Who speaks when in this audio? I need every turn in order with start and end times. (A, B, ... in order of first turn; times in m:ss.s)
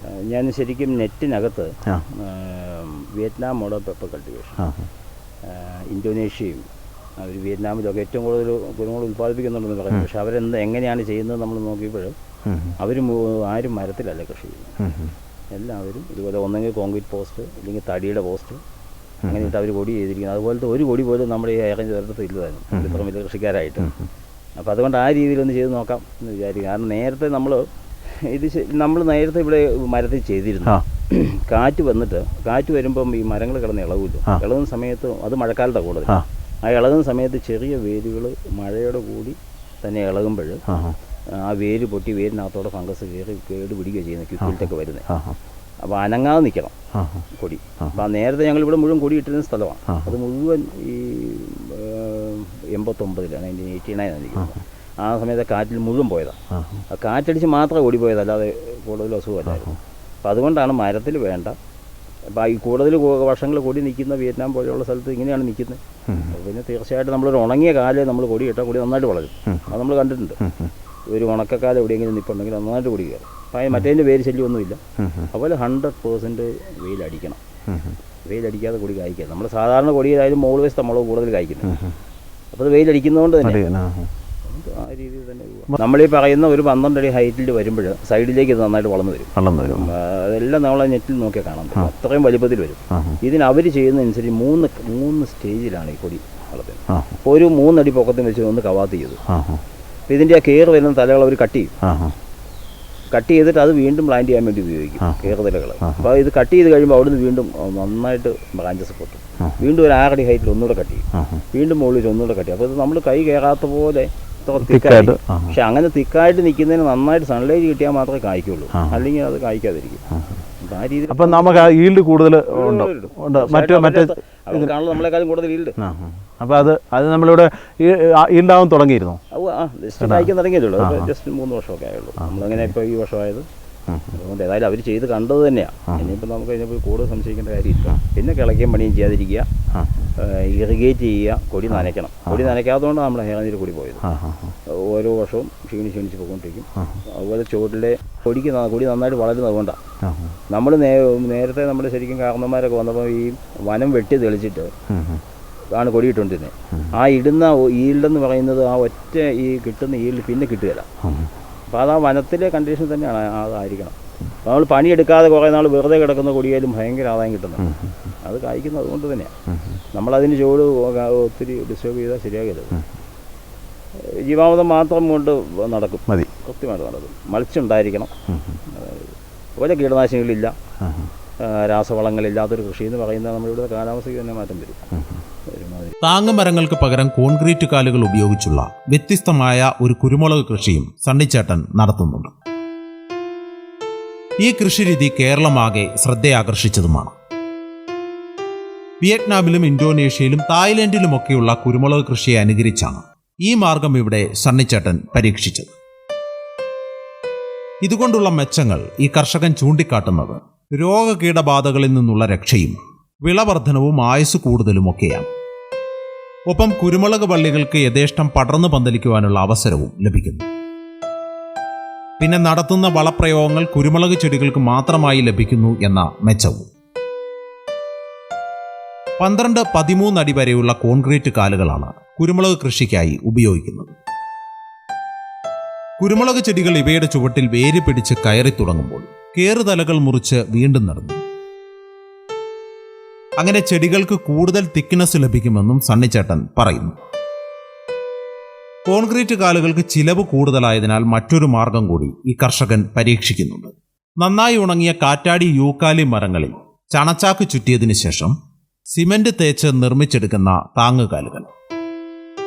0:00.1-0:04.6 A
0:05.5-0:06.6 A
0:07.2-0:12.2 A
0:12.8-0:14.8 A
0:15.5-0:18.6 A
0:19.3-0:23.9 A
0:24.6-0:27.6 A
0:28.3-0:40.6 A
0:41.4-0:45.1 A
0:45.8-0:46.7 A
0:47.4-0:56.4 A
0:56.9-1:01.6 A
1:02.3-1:10.4 A
1:11.1-1:14.8 A
1:15.3-1:17.4 A
1:18.3-1:21.8 A
1:22.5-1:23.6 A
1:23.4-1:24.1 B
1:24.5-1:39.2 A
1:29.4-1:29.9 B
1:40.1-1:41.7 A
1:43.1-2:00.0 A
1:54.6-1:55.2 B
2:00.6-2:01.7 A
2:01.1-2:04.7 B
2:02.5-2:05.8 A
2:05.8-2:09.2 B
2:09.3-2:13.4 A
2:14.1-2:19.5 A
2:20.2-2:24.0 A
2:24.7-2:29.8 A
2:30.5-2:34.7 A
2:35.8-2:40.9 A
2:41.7-2:49.3 A
2:49.9-2:52.8 A
2:54.2-2:58.1 A
2:58.7-3:00.6 A
3:01.4-3:04.8 A
3:05.5-3:06.0 A
3:06.0-3:12.3 C
3:14.4-3:17.1 C
3:19.0-3:25.7 C
3:27.8-3:35.3 C
3:36.5-3:40.5 C
3:42.2-3:46.7 C
3:49.2-3:53.9 C
3:56.0-4:01.2 C
4:03.4-4:06.9 C
4:08.9-4:18.3 C
4:18.9-4:21.5 C